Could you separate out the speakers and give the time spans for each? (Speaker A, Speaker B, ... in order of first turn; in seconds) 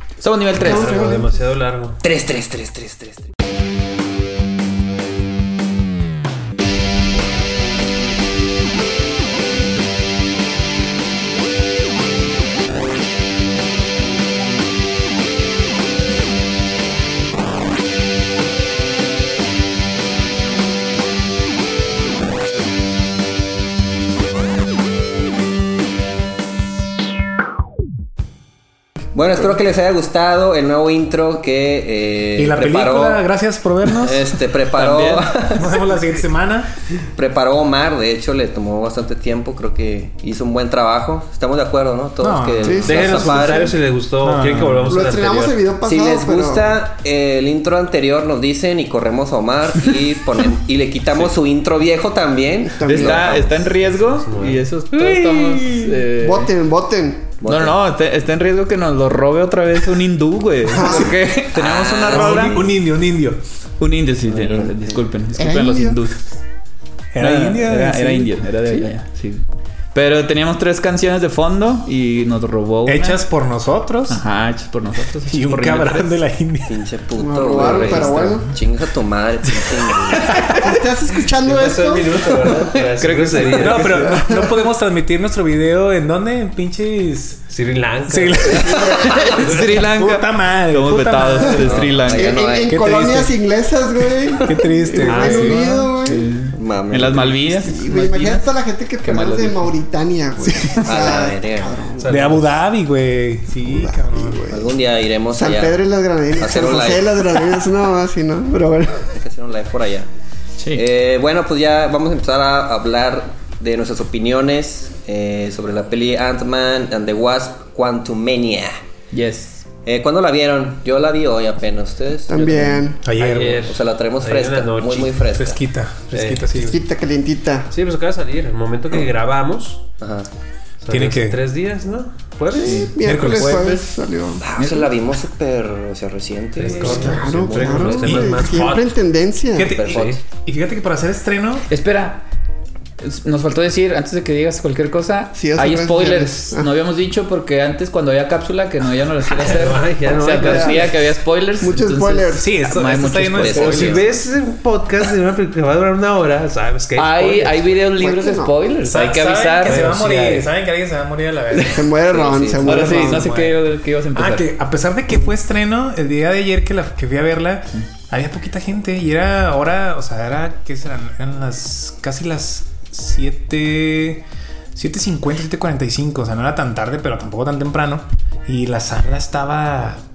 Speaker A: 0.2-1.0, 34.7-35.3, 52.9-56.5, 57.4-62.6, 63.8-66.2, 67.2-73.2, 74.1-76.2, 77.7-78.2, 83.0-84.2, 88.7-92.5, 95.4-98.5, 99.0-99.8, 110.6-110.8, 119.1-119.7, 132.6-133.8, 134.6-134.9, 141.7-142.3, 143.0-154.0, 157.0-159.9, 162.7-164.5
Speaker B: 0.6-1.4, 42.6-43.7, 44.9-46.8, 52.6-53.5, 56.2-57.3, 60.7-61.2, 65.4-66.0, 77.2-78.5, 80.5-82.6, 84.0-84.6, 88.5-89.4, 91.4-96.3, 97.5-102.5, 103.6-109.2, 122.3-123.0, 126.7-127.7, 132.5-134.4, 136.8-139.8, 145.3-146.7, 150.2-151.0, 151.6-152.5, 158.0-158.6, 161.5-163.3
Speaker C: 0.6-2.0, 42.9-45.6, 53.9-55.9, 81.3-84.0, 87.5-89.8, 95.1-95.7, 102.0-102.4, 123.2-125.2, 126.1-126.4, 127.7-129.8, 130.8-132.9, 136.6-138.9, 139.8-140.2, 149.3-150.9, 153.6-157.7, 159.6-160.5
Speaker D: 2.0-3.3, 29.1-33.2, 33.9-35.8, 37.1-43.8, 45.8-53.5, 57.4-57.8, 61.5-62.7, 64.3-64.7, 76.7-80.5, 89.2-89.5, 91.6-93.0, 94.4-94.7, 96.5-97.4, 100.8-101.8, 104.5-105.8, 106.4-107.5, 109.1-110.1, 110.7-118.8, 119.8-122.9, 123.6-125.6, 130.0-130.3, 134.4-138.4, 139.7-140.2, 153.4-154.1, 162.1-162.9
Speaker E: 32.4-34.4, 35.6-36.7, 42.2-43.1, 44.2-44.9, 62.0-63.4, 67.1-68.3, 72.8-74.2, 75.3-76.8, 83.5-87.4, 88.1-89.1, 89.6-92.0, 92.7-93.3, 94.4-95.8, 102.1-104.5, 123.0-123.7, 125.4-126.8, 130.9-131.4, 133.0-133.8, 136.8-137.2, 138.0-138.7, 139.5-141.7, 152.4-154.0, 158.8-161.9, 162.5-180.0